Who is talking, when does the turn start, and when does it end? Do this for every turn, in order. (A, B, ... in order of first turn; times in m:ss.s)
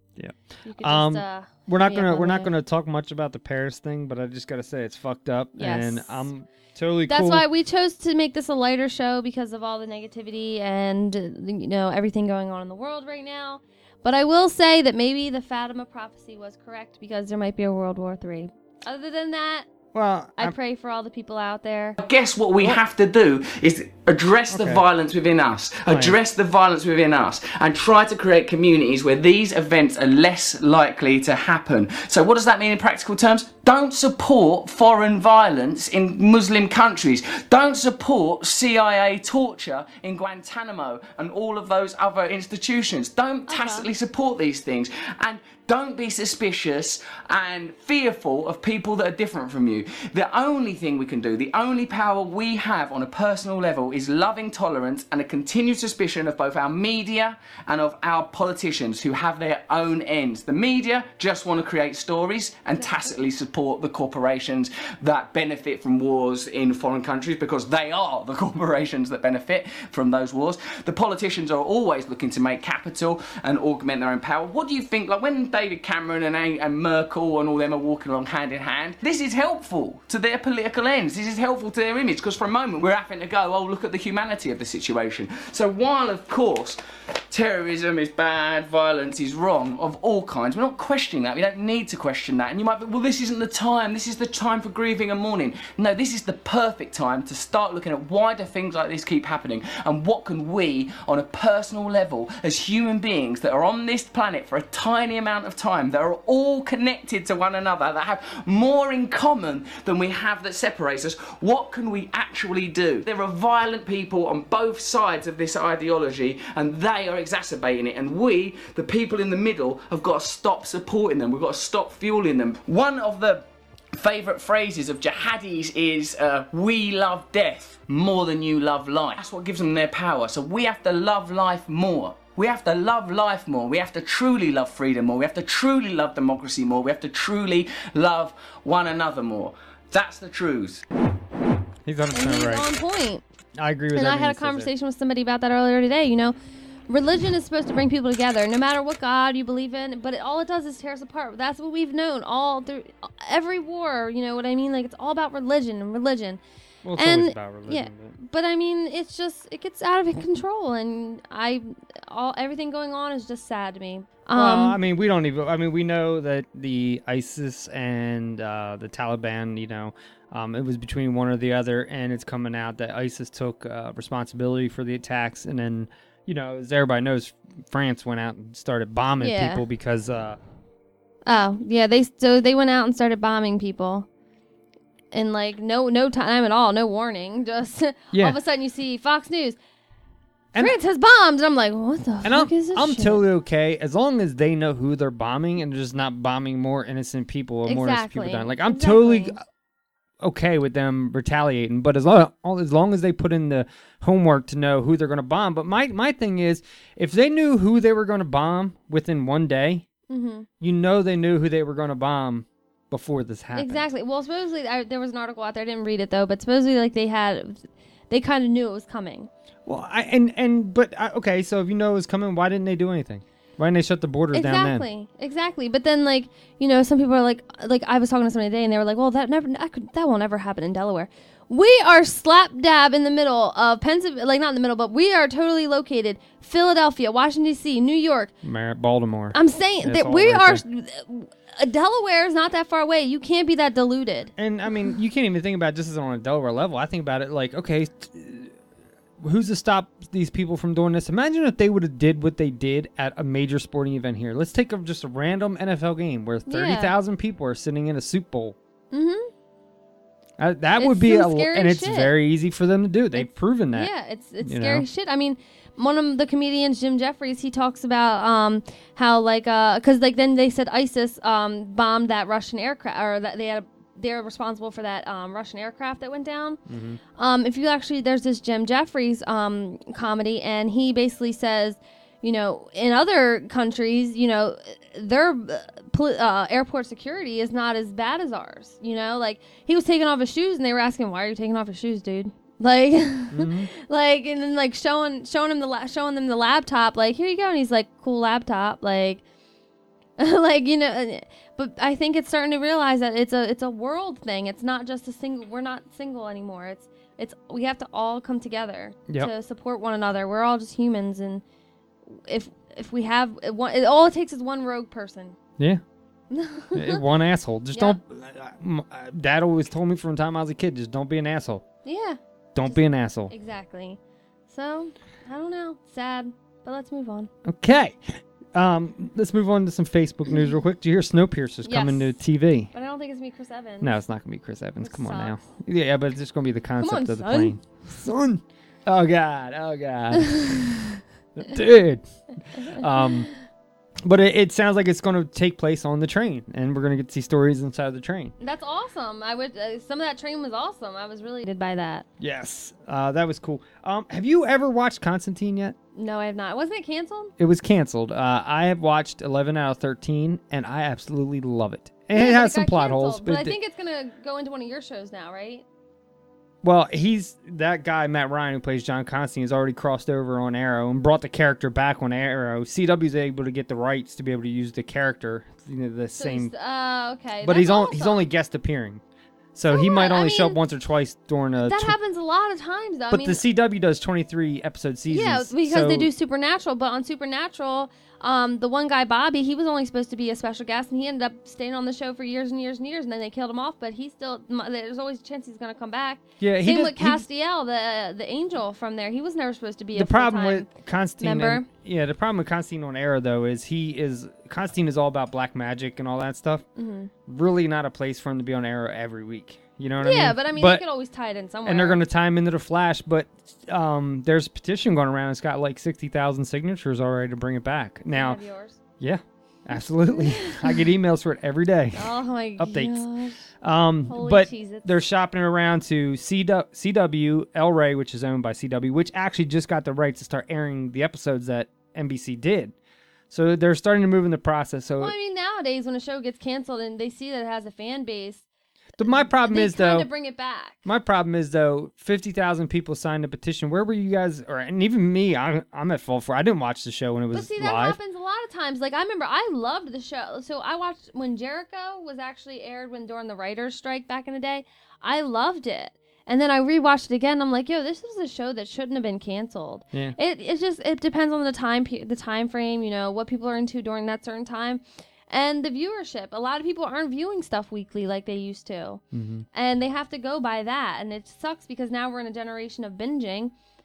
0:00.2-0:07.4 A
0:00.6-0:02.5 B
0:05.6-0:06.3 B
0:07.1-0:19.7 B
0:19.9-0:20.6 A
0:20.4-0:22.0 B
0:22.0-1:26.8 C
0:24.5-0:24.8 A
0:25.8-0:26.2 A
0:43.5-0:43.9 B
1:02.8-1:03.1 B
1:27.3-2:20.8 C
2:21.8-2:22.7 A
2:22.1-2:23.2 B
2:23.6-2:24.7 A
2:23.9-2:26.4 B
2:26.9-2:36.4 B
2:36.8-2:38.2 A
2:37.0-2:44.8 B
2:44.3-3:00.4 A
2:59.2-2:59.6 B
3:01.2-3:04.1 B
3:05.1-3:09.6 B
3:08.1-3:08.4 A
3:10.6-3:13.2 B
3:12.2-3:19.4 A
3:17.7-3:19.4 B
3:20.2-3:29.8 A
3:30.1-3:30.5 B
3:30.6-3:33.8 A
3:33.5-3:39.3 B
3:39.6-3:44.8 A
3:44.3-3:58.3 B
3:58.4-4:00.6 A
3:59.3-4:04.3 B
4:04.4-4:08.5 A
4:09.2-4:18.6 A
4:16.5-4:16.9 B
4:18.9-4:19.3 B
4:20.4-4:23.9 A
4:20.8-4:22.1 B
4:23.1-4:36.6 B
4:24.4-4:24.9 A
4:36.7-4:37.0 A
4:37.2-4:59.2 B
4:53.3-4:53.7 A
5:00.2-5:11.4 B
5:12.1-5:15.4 B
5:16.3-5:17.0 B
5:16.7-5:21.6 A
5:17.7-5:18.0 B
5:21.8-5:27.3 B
5:22.5-5:23.3 A
5:27.4-5:32.7 A
5:31.6-5:32.2 B
5:32.7-5:33.9 B
5:33.8-5:40.5 A
5:34.8-5:35.4 B
5:36.8-5:37.6 B
5:41.4-5:43.3 A
5:42.7-5:43.3 B
5:44.0-5:48.3 A
5:48.4-5:52.0 B
5:52.2-5:55.8 A
5:55.9-5:57.3 B
5:57.4-6:03.5 A
6:02.1-6:05.6 B
6:06.6-6:16.5 A
6:16.2-6:18.2 B
6:17.4-6:19.0 A
6:19.5-6:21.9 A
6:19.7-6:20.6 B
6:21.6-6:23.4 B
6:23.1-6:26.1 A
6:25.1-6:41.7 B
6:36.4-6:37.2 A
6:39.9-6:46.6 A
6:46.8-6:47.1 B
6:47.3-6:50.8 A
6:50.0-6:52.0 B
6:51.6-6:58.4 A
6:58.1-6:58.8 B
6:59.0-7:03.0 A
7:00.1-7:00.8 B
7:01.9-7:03.4 B
7:03.6-7:12.7 A
7:04.1-7:05.0 B
7:13.3-7:15.1 A
7:15.0-7:18.4 B
7:19.0-7:20.1 A
7:19.0-7:20.8 B
7:20.8-7:28.0 A
7:27.3-7:49.0 B
7:49.1-7:49.4 A
7:49.5-7:53.5 B